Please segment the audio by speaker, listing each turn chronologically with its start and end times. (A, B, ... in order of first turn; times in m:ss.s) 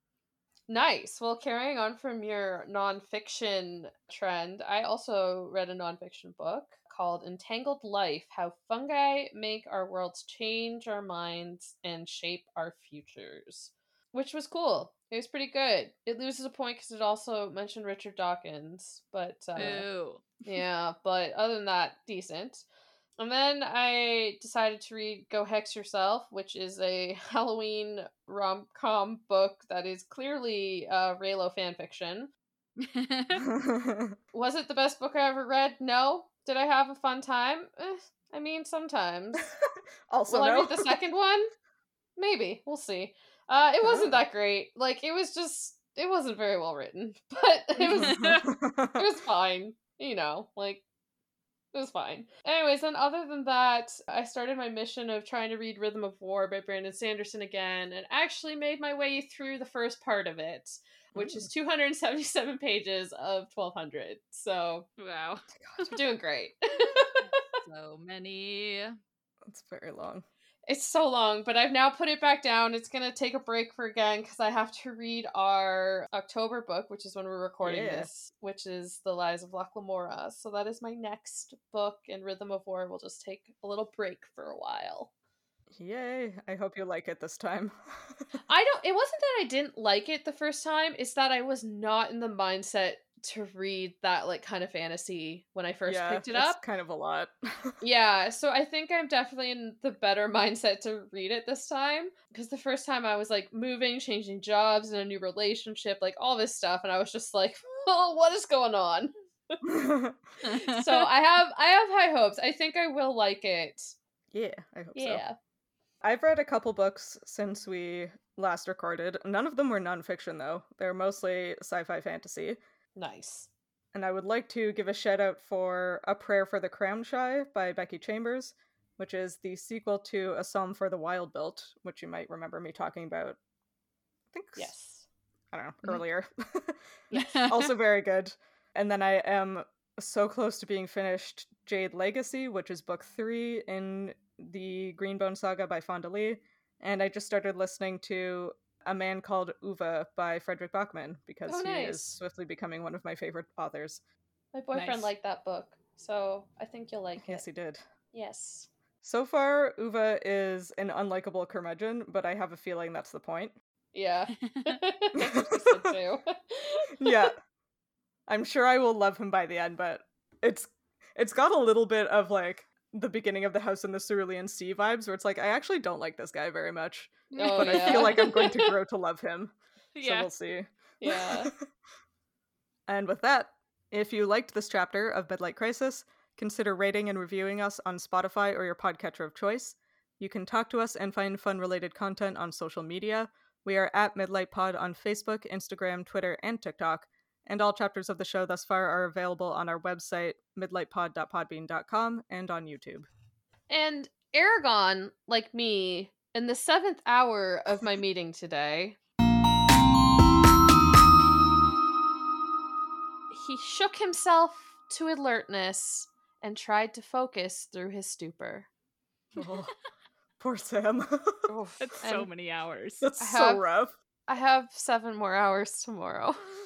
0:00.7-0:19.9 A
0:19.6-0:20.4 B
0:20.4-0:22.6 A
0:23.2-0:32.3 A
0:32.8-0:33.5 B
0:33.4-0:34.2 C
0:34.3-0:39.5 A
0:39.5-0:41.0 C
0:40.3-0:41.5 A
0:42.2-0:50.8 A
0:43.8-0:44.2 C
0:47.9-0:49.1 C
0:47.9-0:48.4 B
0:51.7-1:04.9 A
1:01.2-1:01.5 C
1:05.0-1:05.4 B
1:05.6-1:06.0 C
1:05.8-1:07.4 A
1:07.6-1:09.0 B
1:09.5-1:10.2 C
1:10.7-1:25.1 A
1:17.6-1:18.1 C
1:25.8-1:28.3 C
1:28.5-1:36.6 A
1:35.9-1:37.8 C
1:37.8-1:49.6 A
1:49.6-1:50.2 C
1:50.4-1:51.1 B
1:50.6-1:54.0 A
1:54.3-1:55.2 C
1:55.0-1:55.4 A
1:56.0-2:02.6 C
2:03.0-2:03.5 A
2:03.9-2:13.4 C
2:14.3-2:14.7 C
2:14.6-2:15.1 A
2:15.5-2:16.8 C
2:17.1-2:17.4 A
2:17.1-2:17.7 B
2:17.4-2:34.0 C
2:31.5-2:32.1 A
2:34.5-2:37.4 A
2:34.7-2:35.1 B
2:37.2-2:37.8 C
2:38.1-2:38.7 A
2:39.0-2:43.6 C
2:43.9-2:47.3 A
2:44.4-2:44.8 B
2:45.2-2:45.9 C
2:47.0-2:47.4 C
2:48.3-3:01.6 C
2:57.3-2:58.4 B
2:57.4-2:58.8 A
3:00.0-3:00.3 B
3:01.0-3:01.5 A
3:02.9-3:23.1 C
3:23.7-3:29.0 A
3:33.3-3:38.7 A
3:39.4-3:39.7 C
3:40.4-3:41.5 C
3:41.5-3:42.3 A
3:41.8-3:43.1 B
3:43.0-3:43.9 C
3:43.2-3:43.6 A
3:44.3-3:46.4 A